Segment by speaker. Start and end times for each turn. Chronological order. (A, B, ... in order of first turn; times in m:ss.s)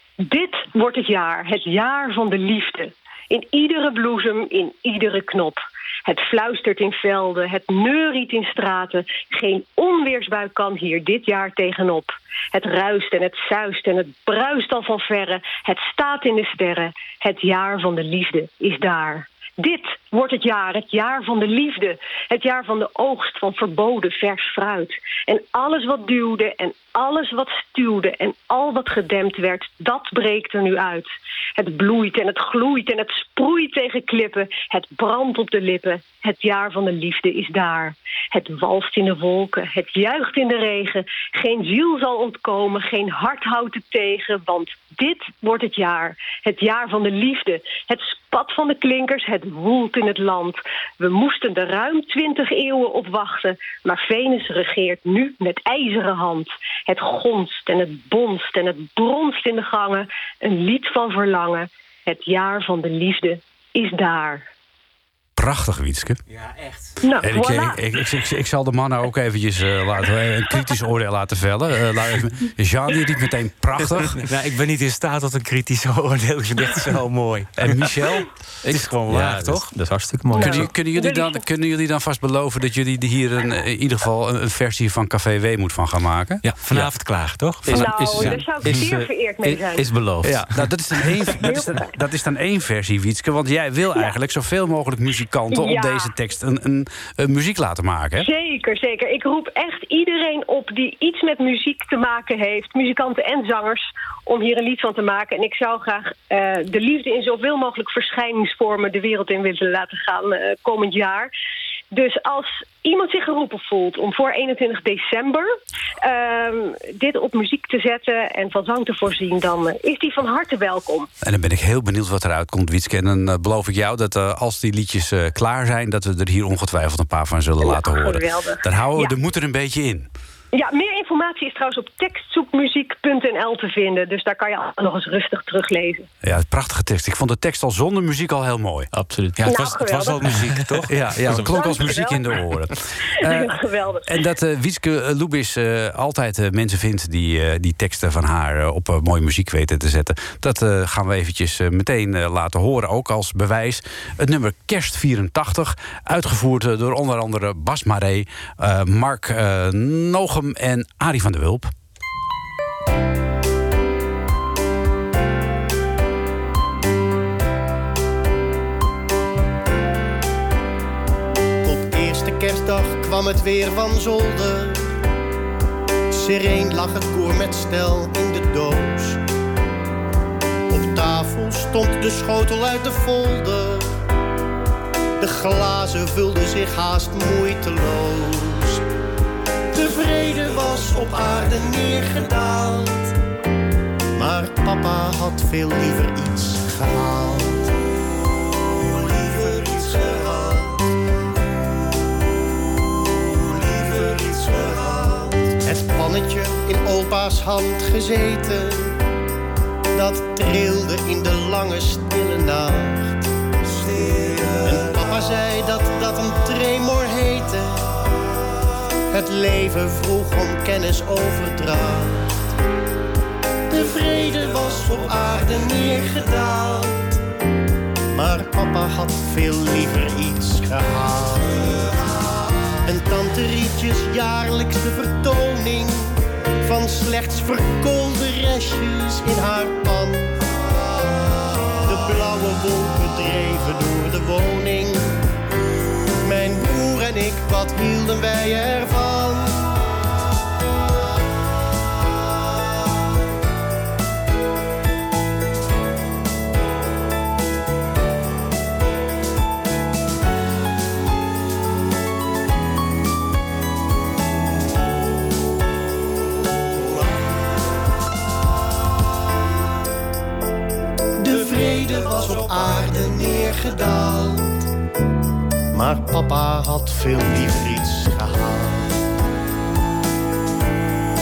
0:00.3-1:04.4 A
1:05.4-1:06.2 B
1:07.0-1:07.7 A
1:07.2-1:14.3 B
1:14.2-1:17.9 C
1:17.6-1:18.3 B
1:18.6-1:20.7 D
1:18.7-1:19.7 C
1:20.4-1:26.4 B
1:26.4-1:28.4 C
1:27.6-1:30.6 D
1:27.7-1:29.8 A
1:30.2-1:38.3 B
1:35.6-1:36.0 A
1:38.2-1:51.3 A
1:51.9-1:55.5 A
1:56.0-2:01.1 A
2:01.2-2:10.1 B
2:07.7-2:09.2 A
2:10.5-2:16.1 A
2:16.2-2:18.9 B
2:18.9-2:19.5 D
2:19.4-2:21.1 C
2:19.5-2:20.2 A
2:20.2-2:21.5 D
2:20.9-2:41.7 B
2:21.5-2:22.4 A
2:23.5-2:24.0 A
2:51.6-2:54.9 E
2:56.1-2:59.2 E
3:00.7-3:03.9 E
3:05.2-3:08.8 E
3:09.7-3:13.1 E
3:14.2-3:17.7 E
3:18.8-3:20.8 E
3:23.2-3:29.0 E
3:29.9-3:33.3 E
3:34.6-3:38.0 E
3:39.1-3:42.3 E
3:43.7-3:47.1 E
3:48.1-3:51.9 E
3:52.9-4:00.4 E
4:01.9-4:05.2 E
4:06.2-4:09.8 E
4:31.2-4:34.6 E
4:35.7-4:39.0 E